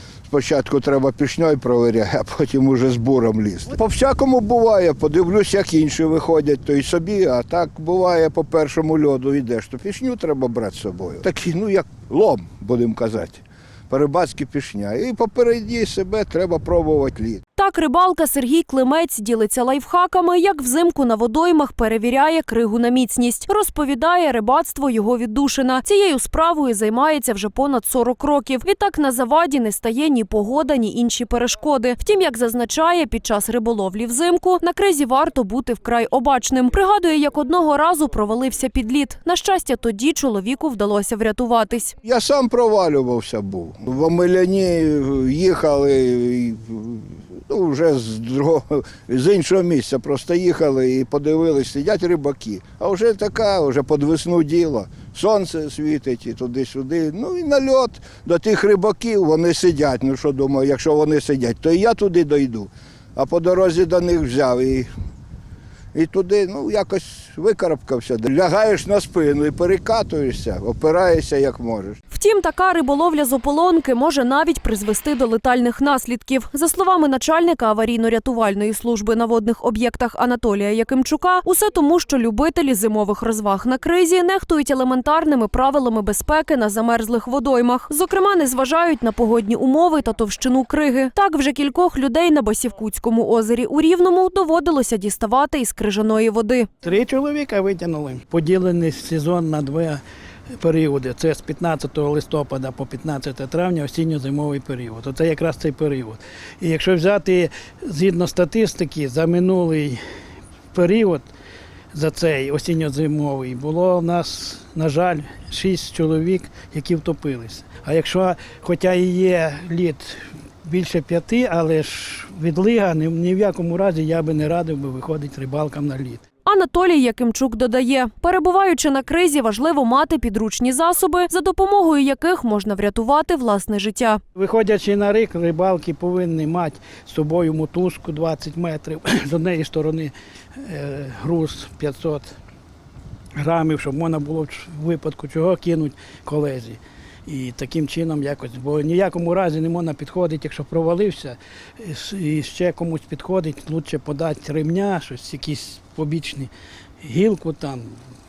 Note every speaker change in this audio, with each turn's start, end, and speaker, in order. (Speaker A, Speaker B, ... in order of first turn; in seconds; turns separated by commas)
Speaker A: 0.3-17.4, Speaker B: 17.6-41.9, Speaker A: 42.0-64.9, Speaker A: 65.9-72.0, Speaker B: 72.1-96.7, Speaker C: 96.8-100.0, Speaker C: 100.5-110.0, Speaker C: 110.7-111.3, Speaker C: 111.9-126.2, Speaker B: 126.4-134.2, Speaker C: 134.3-142.3, Speaker C: 143.4-156.5, Speaker C: 157.0-158.0